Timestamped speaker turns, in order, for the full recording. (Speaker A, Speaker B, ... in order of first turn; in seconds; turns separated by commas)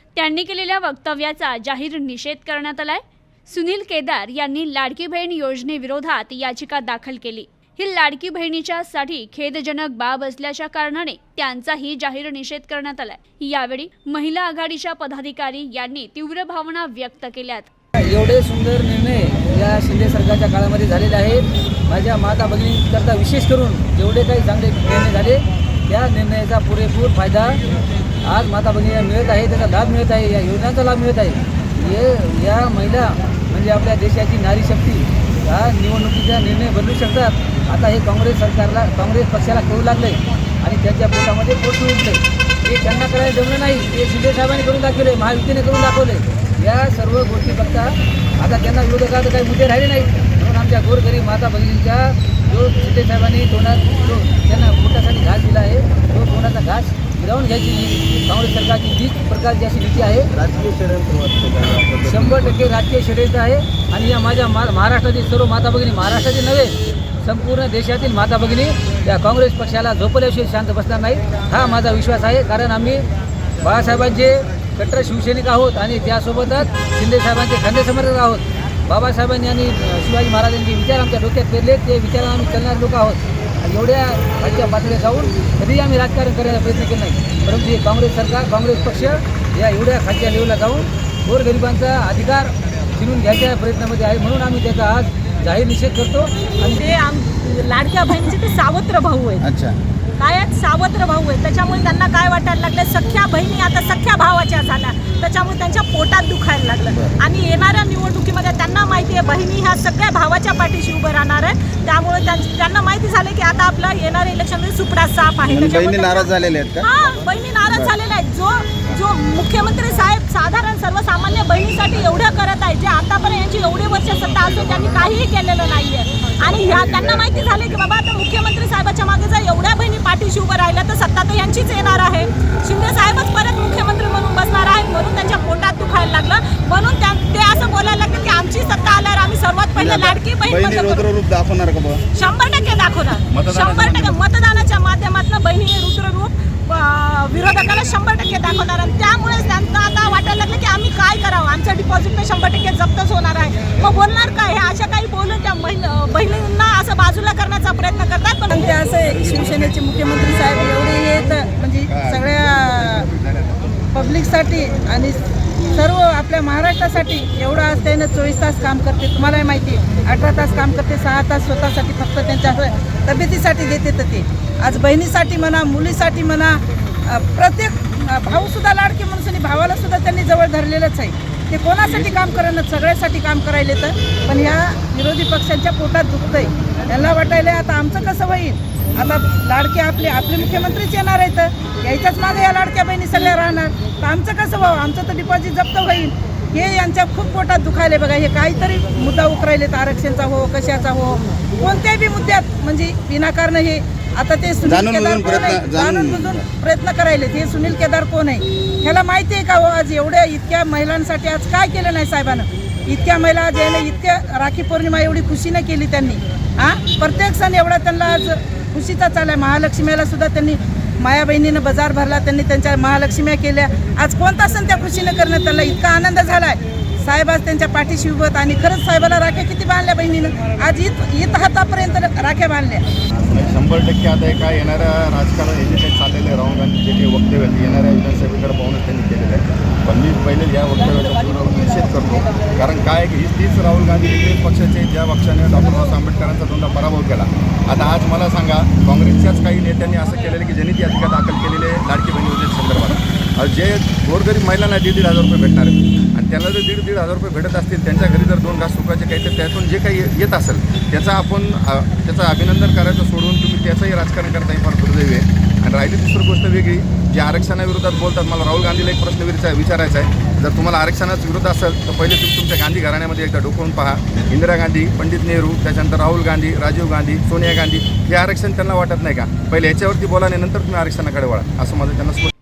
Speaker A: 0.1-17.7, Speaker B: 18.0-27.6, Speaker B: 28.2-60.3, Speaker C: 60.4-62.4, Speaker B: 62.0-73.1, Speaker B: 73.6-96.8, Speaker D: 96.5-99.5, Speaker C: 99.4-99.8, Speaker D: 100.2-141.1, Speaker C: 115.4-116.9, Speaker C: 139.8-142.0, Speaker D: 142.1-158.7, Speaker E: 143.3-144.2, Speaker F: 158.5-163.1, Speaker E: 159.2-159.7, Speaker E: 161.9-162.3, Speaker E: 162.9-163.7, Speaker F: 163.9-165.2, Speaker F: 165.7-232.8, Speaker C: 204.6-206.4, Speaker E: 233.3-282.3